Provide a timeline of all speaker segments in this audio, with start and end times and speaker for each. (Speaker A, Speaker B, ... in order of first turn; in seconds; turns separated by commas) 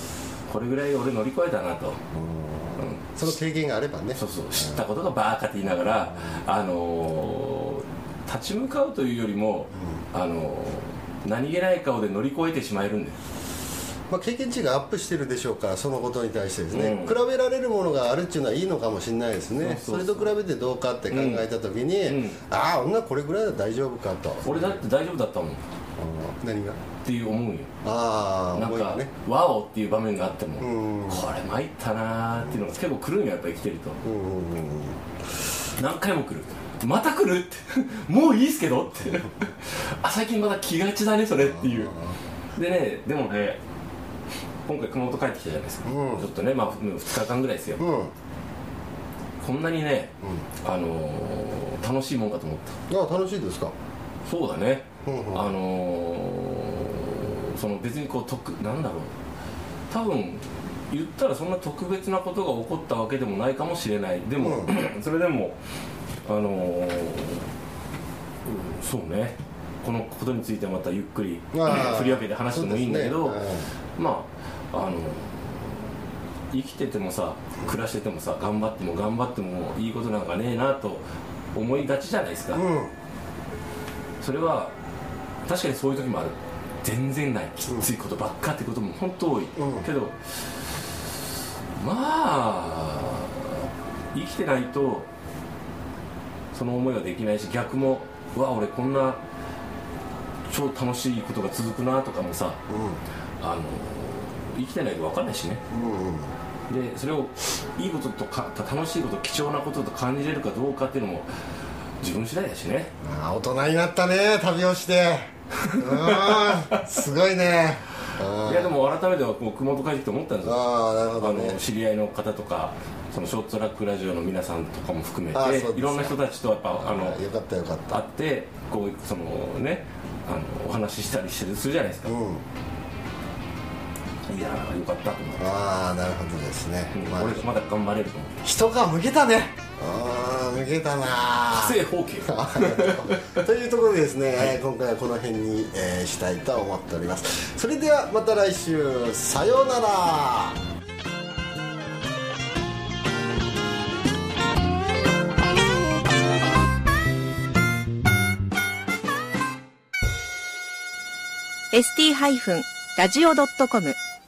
Speaker A: 0.5-2.0, Speaker B: 2.1-4.8, Speaker A: 2.8-3.4, Speaker A: 4.1-13.2, Speaker B: 5.9-6.4, Speaker B: 14.1-24.8, Speaker A: 16.7-17.2, Speaker A: 19.6-20.3, Speaker A: 21.1-21.5, Speaker A: 22.0-22.4, Speaker A: 24.4-25.6, Speaker B: 26.0-26.8, Speaker A: 27.0-27.7, Speaker B: 27.8-29.1, Speaker A: 28.5-34.0, Speaker B: 30.6-31.3, Speaker B: 32.4-32.7, Speaker B: 34.0-35.0, Speaker A: 35.8-42.0, Speaker B: 41.4-42.2, Speaker A: 42.5-43.6, Speaker A: 44.7-47.8, Speaker B: 45.9-46.3, Speaker B: 47.8-48.1, Speaker A: 49.4-52.8, Speaker B: 52.9-53.7, Speaker A: 54.3-59.1, Speaker B: 55.0-55.5, Speaker A: 59.9-65.6, Speaker B: 64.4-64.7, Speaker A: 66.2-67.5, Speaker A: 68.5-73.4, Speaker B: 71.5-73.7, Speaker A: 74.0-82.6, Speaker B: 82.5-82.9, Speaker A: 84.2-84.7, Speaker A: 85.5-90.3, Speaker B: 89.6-89.9, Speaker A: 91.8-95.1, Speaker A: 96.5-99.2, Speaker A: 100.5-102.6, Speaker B: 102.7-103.0, Speaker A: 103.4-105.6, Speaker B: 105.7-106.3, Speaker A: 106.7-111.3, Speaker A: 112.0-112.9, Speaker B: 113.0-118.8, Speaker A: 115.7-116.6, Speaker A: 118.4-120.6, Speaker B: 120.4-121.6, Speaker A: 121.2-127.2, Speaker B: 125.3-128.1, Speaker A: 127.9-132.2, Speaker B: 132.0-132.4, Speaker A: 134.3-135.5, Speaker B: 135.4-137.4, Speaker A: 136.9-138.4, Speaker B: 138.4-150.6, Speaker A: 141.5-143.4, Speaker C: 161.7-164.0